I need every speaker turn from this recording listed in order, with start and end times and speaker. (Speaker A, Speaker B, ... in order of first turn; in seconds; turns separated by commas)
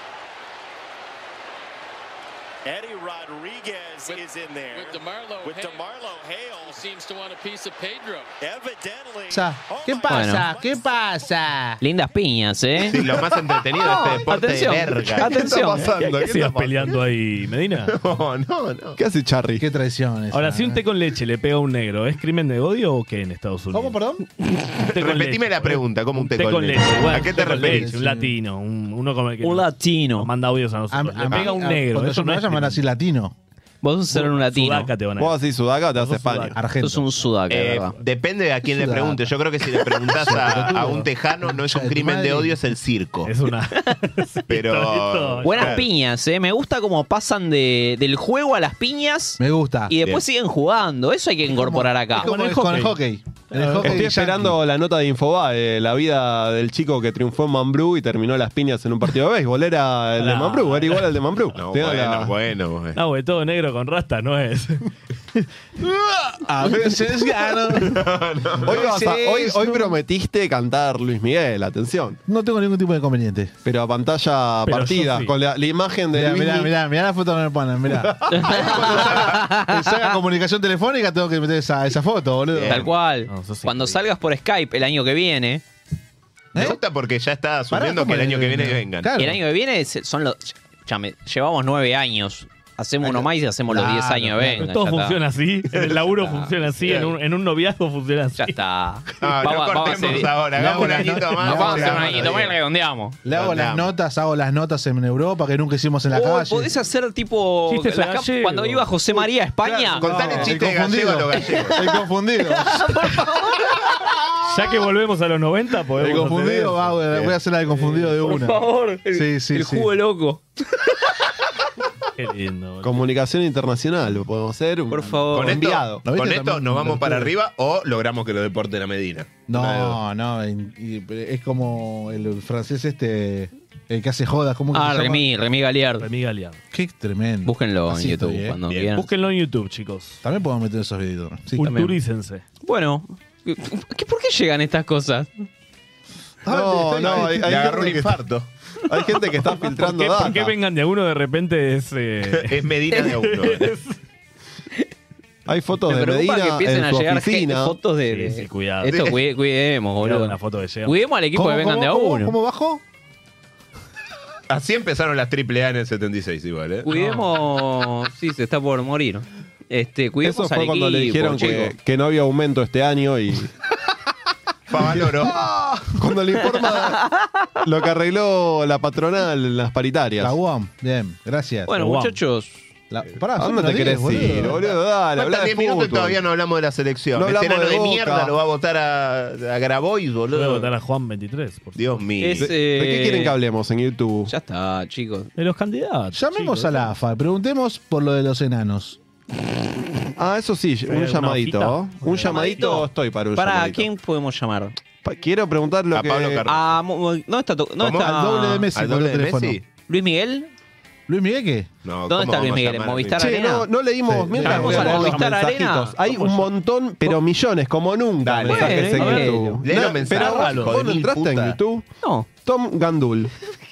Speaker A: 2.6-6.8, Speaker B: 4.0-5.8, Speaker B: 6.6-8.3, Speaker A: 8.4-11.4, Speaker C: 9.3-11.8, Speaker D: 10.1-10.5, Speaker D: 11.8-13.0, Speaker E: 12.8-16.0, Speaker D: 13.8-16.3, Speaker F: 15.2-16.6, Speaker G: 15.4-17.9, Speaker E: 17.9-19.0, Speaker F: 19.0-19.6, Speaker C: 19.6-20.8, Speaker G: 20.3-24.0, Speaker C: 23.7-24.2, Speaker G: 24.8-32.8, Speaker E: 24.9-27.9, Speaker C: 27.2-28.3, Speaker D: 29.4-30.3, Speaker C: 30.9-33.3, Speaker D: 33.8-34.9, Speaker G: 34.1-35.4, Speaker F: 35.2-36.6, Speaker G: 35.9-36.6, Speaker C: 36.5-37.0, Speaker D: 36.8-37.9, Speaker E: 37.5-43.3, Speaker C: 38.7-39.4, Speaker C: 40.1-42.5, Speaker G: 43.2-45.8, Speaker E: 44.5-45.8, Speaker D: 45.4-52.4, Speaker C: 49.4-49.9, Speaker C: 51.5-54.5, Speaker G: 52.2-53.0, Speaker G: 53.5-54.1, Speaker F: 53.8-62.3, Speaker G: 60.2-61.1, Speaker E: 61.5-63.0, Speaker G: 63.0-65.5, Speaker C: 65.8-68.1, Speaker E: 67.8-68.8, Speaker C: 68.6-70.0, Speaker F: 68.6-72.2, Speaker C: 72.3-73.5, Speaker F: 73.6-76.7, Speaker G: 74.6-75.3, Speaker C: 76.1-82.9, Speaker D: 78.3-80.1, Speaker E: 78.6-79.2, Speaker E: 82.5-82.9, Speaker D: 82.7-85.6, Speaker G: 83.3-84.0, Speaker C: 86.5-86.8, Speaker E: 86.5-89.1, Speaker C: 87.7-89.4, Speaker D: 89.2-95.2, Speaker C: 93.0-94.7, Speaker G: 94.6-98.6, Speaker D: 96.2-97.0, Speaker D: 98.4-103.2, Speaker E: 99.2-102.5, Speaker C: 100.5-102.5, Speaker C: 103.2-106.7, Speaker E: 103.3-103.9, Speaker D: 106.1-110.5, Speaker G: 107.7-109.3, Speaker C: 109.7-113.0, Speaker E: 110.0-111.8, Speaker D: 112.6-113.7, Speaker G: 114.5-116.9, Speaker C: 116.0-119.9, Speaker E: 117.1-117.4, Speaker D: 117.7-120.4, Speaker G: 122.2-123.0, Speaker F: 122.8-126.0, Speaker D: 124.9-125.6, Speaker E: 125.3-130.0, Speaker C: 126.0-127.3, Speaker C: 129.5-135.2, Speaker D: 134.7-136.1, Speaker G: 136.0-136.6, Speaker C: 136.7-138.6, Speaker D: 137.4-139.1, Speaker G: 138.9-140.2, Speaker C: 140.2-141.7, Speaker G: 141.6-142.4, Speaker D: 141.6-141.9, Speaker D: 142.6-145.5, Speaker C: 146.4-148.0, Speaker F: 146.5-148.1, Speaker E: 147.1-148.5, Speaker F: 148.8-150.6, Speaker G: 149.7-154.0, Speaker E: 152.3-153.8, Speaker F: 155.5-157.8, Speaker D: 155.8-162.3, Speaker G: 158.1-159.0, Speaker G: 160.0-161.0, Speaker C: 161.3-162.8, Speaker E: 164.5-166.9, Speaker D: 166.8-171.7, Speaker G: 166.9-167.3, Speaker F: 170.2-173.5, Speaker E: 174.7-175.4, Speaker C: 175.2-176.0, Speaker F: 175.2-177.0, Speaker D: 176.9-177.2, Speaker F: 177.6-180.4, Speaker C: 180.2-181.7, Speaker D: 181.7-182.7, Speaker G: 181.7-182.1, Speaker C: 182.9-184.6, Speaker F: 183.3-186.2, Speaker E: 184.6-190.7, Speaker F: 187.2-188.3, Speaker G: 190.3-191.8, Speaker E: 191.7-192.5, Speaker D: 192.2-193.3, Speaker F: 192.4-194.3, Speaker D: 194.3-195.3, Speaker G: 195.3-196.9, Speaker C: 196.1-199.0, Speaker F: 200.2-203.8, Speaker G: 200.9-202.8, Speaker D: 202.2-204.8, Speaker F: 205.0-206.4, Speaker E: 205.9-206.8, Speaker D: 206.4-208.7, Speaker E: 207.8-209.6, Speaker C: 208.0-209.6, Speaker D: 209.9-210.5, Speaker C: 211.1-211.7, Speaker E: 211.8-213.3, Speaker D: 212.1-213.7, Speaker F: 213.2-221.8, Speaker C: 214.1-215.2, Speaker D: 214.4-216.0, Speaker G: 216.1-216.5, Speaker E: 218.2-218.9, Speaker D: 218.4-219.6, Speaker G: 218.6-220.8, Speaker E: 219.6-221.6, Speaker F: 222.4-223.3